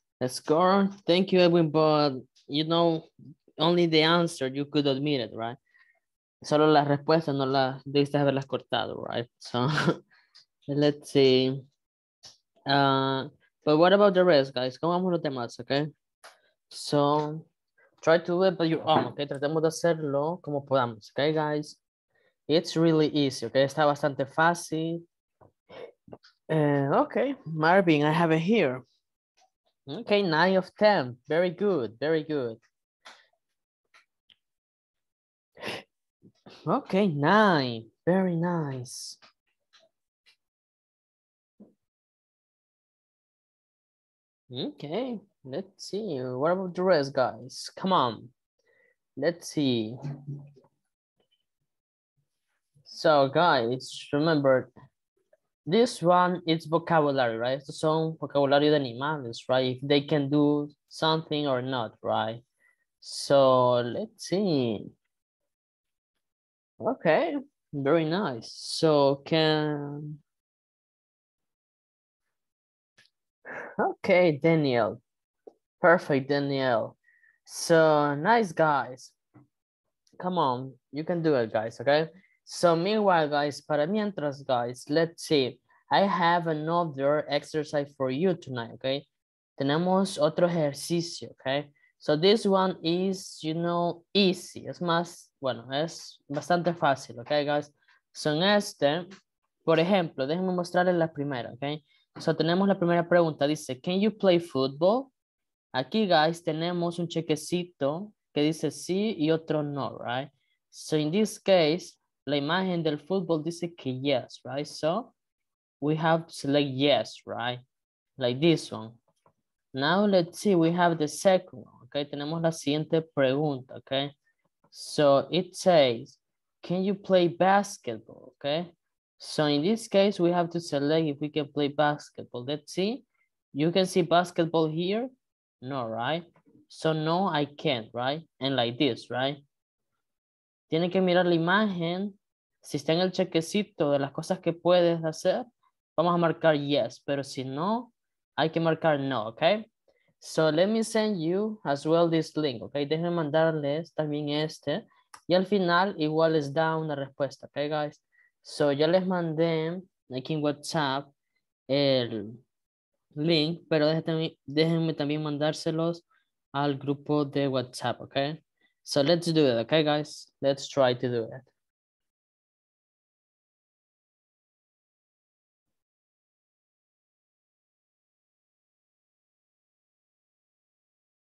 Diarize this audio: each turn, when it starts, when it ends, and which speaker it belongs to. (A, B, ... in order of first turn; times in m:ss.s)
0:00.2-0:03.1 A
0:03.6-0:05.6 A
0:06.4-0:09.6 A
0:10.7-0:11.6 A
0:12.7-0:15.9 A
0:16.7-0:17.5 A
0:18.0-0:21.8 A
0:22.5-0:25.0 A
0:26.5-0:28.8 A
0:29.9-0:32.6 A
0:36.7-0:39.2 A
0:44.5-0:48.3 A
0:49.2-0:50.0 A
0:52.9-0:54.7 A
0:55.7-1:02.4 A
1:03.0-1:04.9 A
1:06.8-1:10.2 A
1:13.5-1:15.0 A
1:15.8-1:19.1 A
1:20.2-1:29.1 A
1:29.6-1:39.1 A
1:39.6-1:45.1 A
1:45.7-1:55.1 A
1:55.8-1:57.6 A
1:58.2-1:59.0 A
1:59.8-2:04.1 A
2:04.7-2:15.1 A
2:15.6-2:19.4 A
2:20.7-2:29.7 A
2:30.2-2:41.1 A
2:41.7-2:42.4 A
2:43.2-2:46.0 A
2:46.5-2:51.5 A